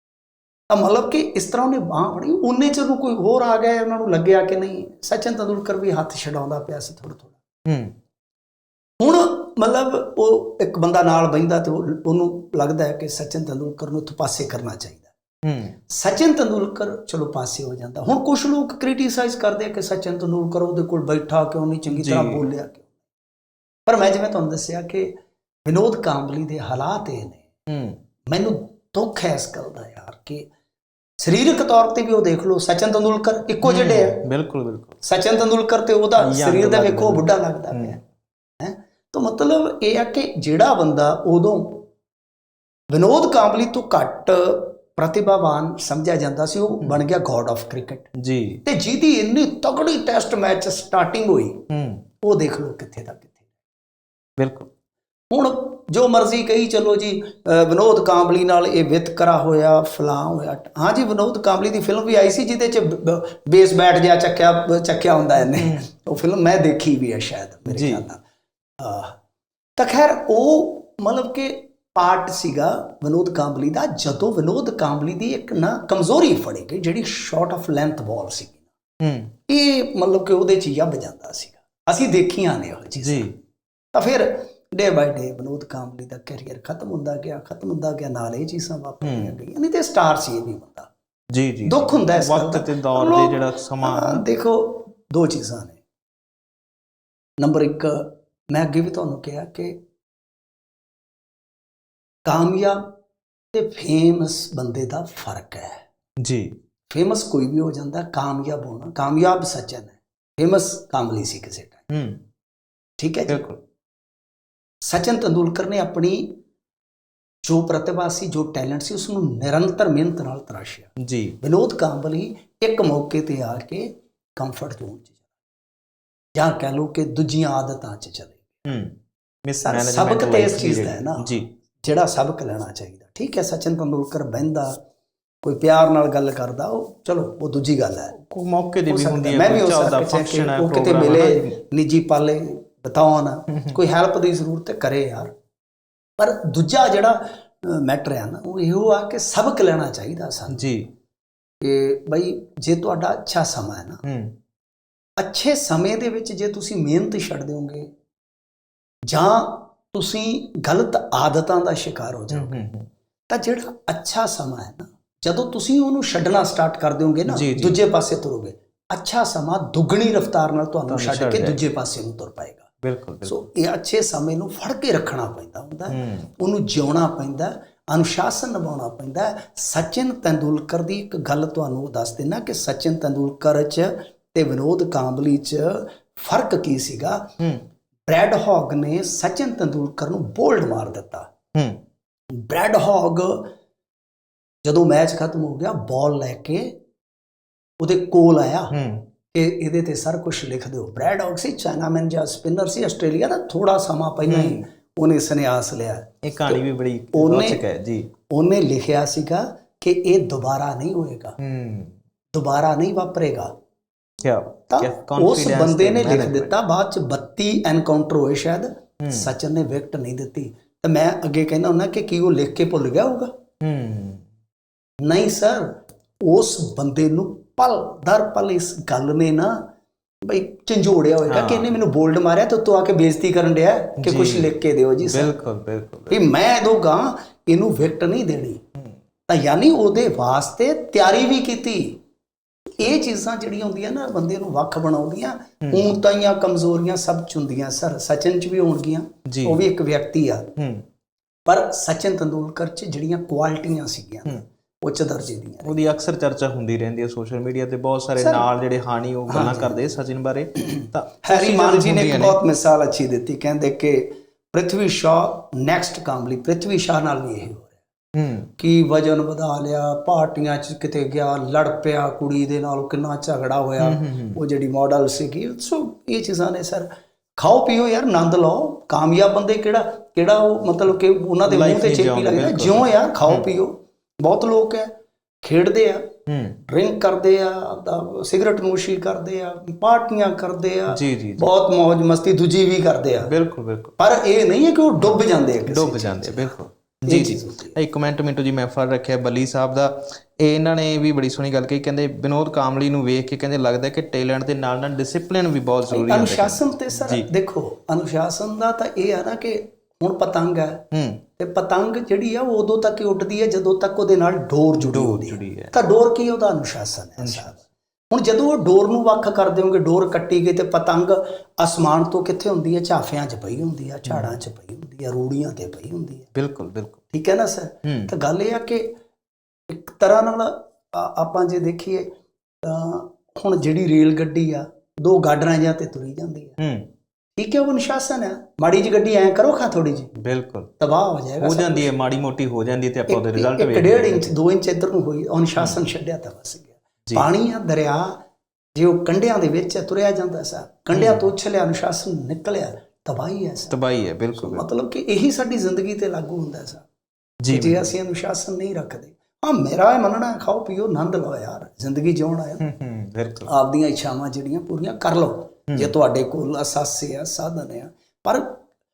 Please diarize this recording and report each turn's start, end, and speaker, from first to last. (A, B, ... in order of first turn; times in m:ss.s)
0:00.7-0:07.4 A
0:07.6-0:07.9 B
0:09.0-0:15.1 A
0:15.4-0:15.8 B
0:15.9-0:22.8 A
0:21.9-0:22.4 B
0:23.8-0:25.1 A
0:25.6-0:27.4 A
0:27.7-0:28.0 B
0:28.3-0:30.5 A
0:31.2-0:34.2 A
0:33.6-0:35.0 B
0:35.0-0:38.0 A
0:36.2-0:38.0 B
0:38.6-0:41.9 A
0:42.9-0:48.1 A
0:48.2-0:48.6 B
0:48.6-0:51.6 A
0:51.7-0:52.0 B
0:52.2-0:53.3 A
0:54.4-0:54.7 B
0:55.3-1:08.2 A
1:05.4-1:05.9 B
1:07.7-1:08.0 B
1:08.8-1:09.2 A
1:09.8-1:18.6 A
1:19.0-1:19.3 B
1:19.5-1:23.3 A
1:23.0-1:23.3 B
1:23.9-1:30.9 A
1:29.0-1:29.4 B
1:31.3-1:34.2 B
1:31.6-1:35.8 A
1:37.4-1:39.8 A
1:42.2-1:42.9 A
1:43.5-1:45.8 A
1:46.2-1:46.6 B
1:46.9-1:51.9 A
1:51.9-1:52.2 B
1:53.0-1:53.4 A
1:53.3-1:53.6 B
1:54.8-1:56.4 A
1:57.4-2:00.9 A
2:01.0-2:01.4 B
2:01.4-2:05.1 A
2:06.3-2:08.7 A
2:08.6-2:11.5 B
2:09.6-2:11.3 A
2:11.8-2:14.8 A
2:15.4-2:18.2 A
2:18.2-2:21.5 B
2:18.9-2:25.3 A
2:26.2-2:30.7 A
2:30.5-2:30.9 B
2:31.6-2:34.0 A
2:34.0-2:34.3 B
2:35.2-2:37.9 A
2:39.1-2:42.6 A
2:42.3-2:42.9 B
2:43.3-2:52.6 A
2:47.3-2:47.8 B
2:50.9-2:51.6 B
2:52.8-2:53.4 B
2:53.2-3:07.3 A
2:55.9-2:56.3 B
3:08.1-3:11.3 A
3:11.5-3:11.8 B
3:12.4-3:13.5 A
3:14.6-3:16.7 A
3:17.8-3:18.7 A
3:18.7-3:19.0 B
3:19.3-3:26.6 A
3:24.3-3:24.6 B
3:26.2-3:28.1 B
3:27.1-3:27.6 A
3:28.3-3:31.3 A
3:31.4-3:32.0 B
3:32.3-3:33.5 A
3:34.2-3:36.5 B
3:34.7-3:43.3 A
3:39.0-3:39.3 B
3:43.6-3:44.2 B
3:45.0-3:45.7 A
3:46.2-3:49.6 A
3:50.2-3:55.3 A
3:51.3-3:51.8 B
3:54.0-3:56.2 B
3:56.1-3:58.6 A
3:59.3-4:02.0 A
4:02.8-4:10.5 A
4:05.6-4:06.0 B
4:09.3-4:09.6 B
4:10.6-4:10.8 B
4:11.5-4:16.0 A
4:15.6-4:22.4 B
4:18.2-4:18.4 A
4:19.3-4:19.8 A
4:20.6-4:27.7 A
4:28.2-4:28.5 B
4:28.6-4:44.9 A
4:33.8-4:34.4 B
4:41.4-4:43.5 B
4:45.4-4:46.1 A
4:46.3-4:46.6 B
4:46.7-4:53.3 A
4:50.9-4:51.5 B
4:53.2-4:53.9 B
4:54.0-4:57.8 A
4:55.0-5:07.3 B
5:05.9-5:10.8 A
5:10.9-5:11.2 B
5:11.4-5:26.3 A
5:14.8-5:15.7 B
5:17.2-5:17.6 B
5:24.1-5:24.3 B
5:26.3-5:27.0 B
5:27.1-5:28.9 A
5:27.8-5:28.1 B
5:29.7-5:32.1 A
5:32.6-5:36.6 A
5:36.6-5:36.9 B
5:37.4-5:40.2 A
5:40.2-5:40.7 B
5:40.8-5:41.9 A
5:41.4-5:44.3 B
5:43.1-5:48.2 A
5:45.6-5:45.9 B
5:48.7-5:53.8 A
5:50.9-5:51.2 B
5:53.7-5:54.6 B
5:54.4-5:56.8 A
5:57.4-5:57.9 B
5:57.5-6:02.6 A
6:02.6-6:03.5 B
6:03.5-6:08.6 A